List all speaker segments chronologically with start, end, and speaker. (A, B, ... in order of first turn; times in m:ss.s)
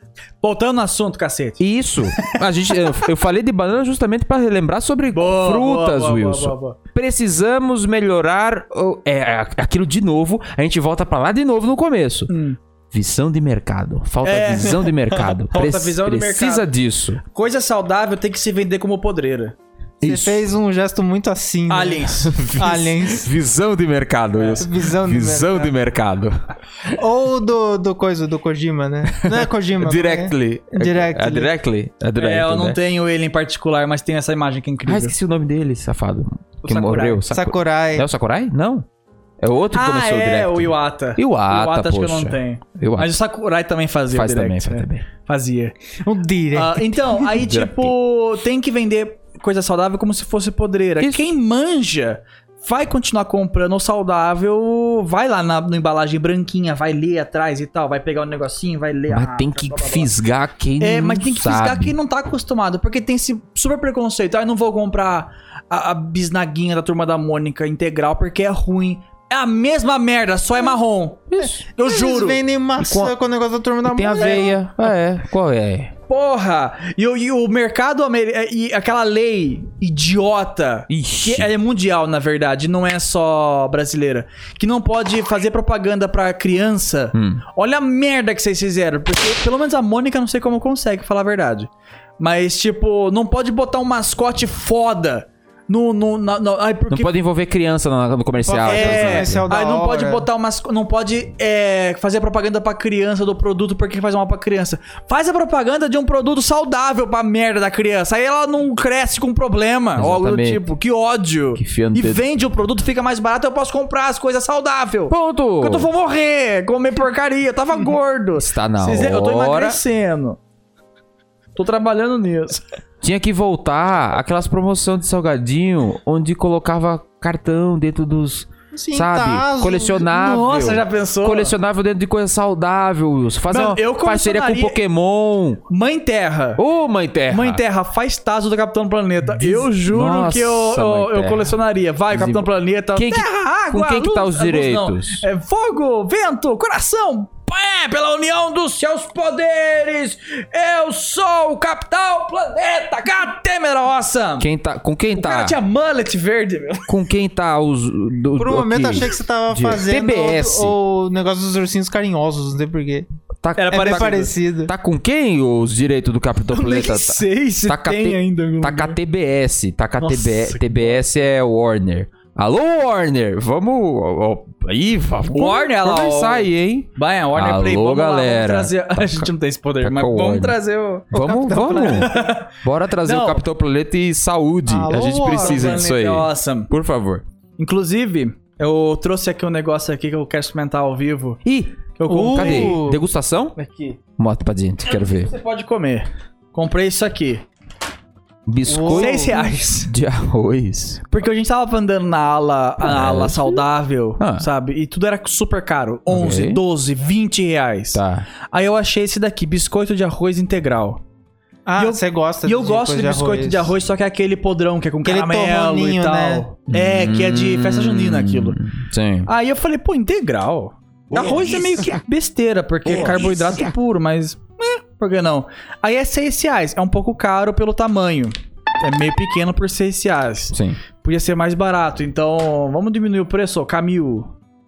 0:00.4-0:01.6 A
0:01.6-0:12.3 B
0:02.1-0:02.4 A
0:05.1-0:06.8 A
0:12.3-0:12.6 A
0:12.9-0:17.2 B
0:14.2-0:16.7 A
0:17.3-0:19.6 A
0:20.0-0:20.4 B
0:20.0-0:23.3 C
0:21.7-0:22.4 A
0:22.2-0:26.4 B
0:24.4-0:24.6 A
0:24.6-0:25.7 C
0:27.0-0:31.5 C
0:29.2-0:32.8 B
0:32.2-0:35.2 A
0:34.9-0:38.8 B
0:36.6-0:37.2 A
0:37.3-0:38.1 C
0:39.4-0:43.1 B
0:39.7-0:45.8 A
0:44.1-0:45.1 B
0:46.0-0:47.3 C
0:46.5-1:00.1 A
0:47.3-0:47.9 B
0:51.0-0:51.3 B
0:59.1-1:01.9 B
1:00.8-1:12.4 A
1:11.3-1:11.6 B
1:11.8-1:14.6 C
1:12.8-1:13.1 B
1:13.8-1:15.9 B
1:16.1-1:37.1 A
1:20.9-1:21.5 B
1:27.1-1:27.4 B
1:36.9-1:39.5 B
1:38.4-1:40.3 C
1:38.7-2:00.4 A
1:50.0-1:50.7 B
1:51.6-1:52.2 B
1:55.1-1:55.9 B
1:58.4-1:59.8 B
2:01.6-2:02.6 A
2:03.0-2:15.6 B
2:08.7-2:10.1 C
2:10.1-2:11.5 A
2:13.5-2:14.8 A
2:15.7-2:16.6 A
2:16.6-2:17.6 B
2:17.3-2:34.5 A
2:19.3-2:21.6 B
2:22.1-2:25.2 B
2:34.4-2:35.6 B
2:35.2-2:37.0 A
2:36.9-2:40.8 B
2:38.4-2:43.1 C
2:43.4-2:59.3 B
2:43.6-2:44.3 A
2:43.7-2:44.7 C
2:46.5-2:49.0 A
2:50.0-2:51.0 A
2:55.3-3:01.1 A
2:59.8-3:00.6 B
3:01.1-3:07.2 B
3:01.1-3:02.1 C
3:01.8-3:03.4 A
3:04.7-3:05.8 C
3:05.3-3:06.7 A
3:07.6-3:11.4 A
3:11.4-3:13.6 B
3:12.0-3:12.8 A
3:12.1-3:13.0 C
3:13.6-3:14.0 A
3:14.2-3:15.3 B
3:14.9-3:17.4 A
3:18.5-3:21.1 B
3:18.7-3:19.5 C
3:18.9-3:19.9 A
3:21.1-3:28.0 A
3:22.8-3:23.6 B
3:24.2-3:24.5 B
3:26.1-3:26.6 B
3:27.9-3:28.3 B
3:28.5-3:31.0 A
3:31.7-3:33.7 C
3:31.8-3:38.6 A
3:35.0-3:36.4 C
3:36.7-3:39.3 B
3:39.3-3:54.3 A
3:41.1-3:41.9 B
3:42.9-3:43.6 B
3:50.5-3:50.8 B